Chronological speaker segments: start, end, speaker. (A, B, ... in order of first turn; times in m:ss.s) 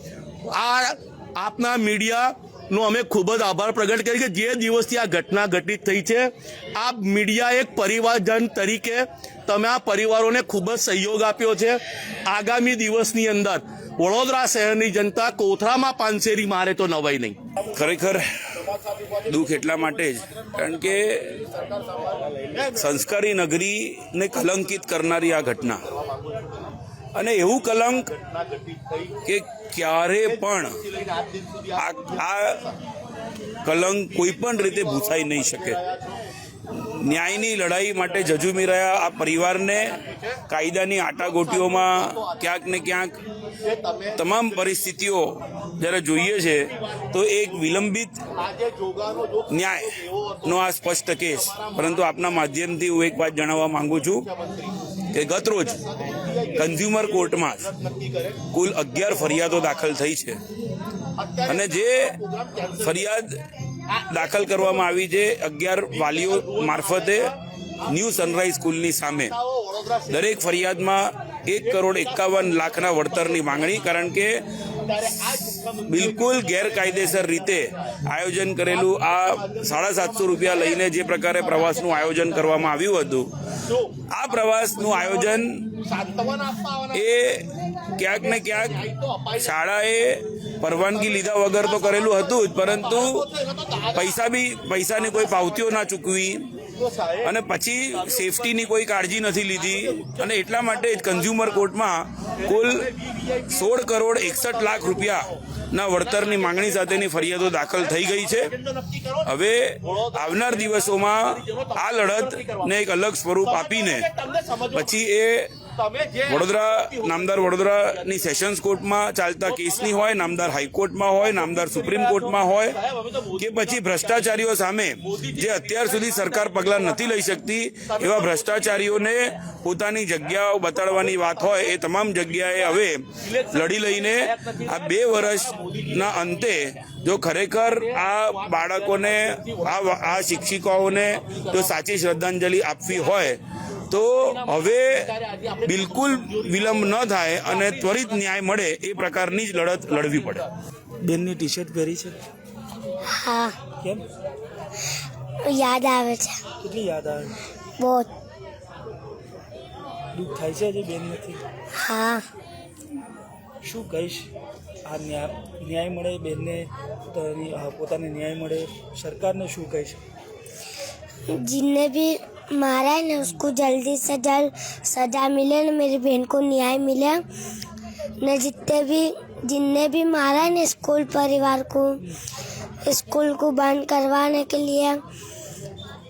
0:00.5-0:17.4 A
0:17.8-0:18.2 B
0:19.3-0:21.4 B
0:22.7-0:25.8 B
0:27.2-0:28.1 B
0:29.3-0:30.8 B
0:31.8-0:32.6 B
0:33.6-0:35.8 B
0:36.9-0:40.0 B
0:40.5-0:43.2 B
0:44.2-0:48.2 B
0:49.5-0:49.9 B
0:50.4-0:54.3 B
0:55.1-0:55.8 B
0:56.5-0:57.7 B
0:58.5-1:00.4 B
1:01.4-1:02.2 B
1:02.8-1:03.3 B
1:04.1-1:07.3 B
1:07.9-1:09.4 B
1:10.1-1:14.4 B
1:15.8-1:23.3 B
1:24.1-1:25.6 B
1:26.9-1:28.8 B
1:29.4-1:33.3 B
1:33.9-1:36.4 B
1:37.2-1:42.9 B
1:43.5-1:48.5 B
1:49.3-1:54.1 B
1:54.7-1:55.5 B
1:56.3-2:02.8 B
2:03.4-2:23.4 B
2:23.9-2:25.1 B
2:25.6-2:30.4 B
2:31.0-2:32.2 C
2:33.2-2:33.5 D
2:35.5-2:36.4 D
2:36.6-2:37.4 C
2:37.8-2:38.1 D
2:40.2-2:41.4 C
2:41.8-2:42.2 D
2:43.6-2:44.3 C
2:44.9-2:50.0 C
2:51.4-2:57.2 D
2:58.2-3:02.0 D
3:02.9-3:05.0 D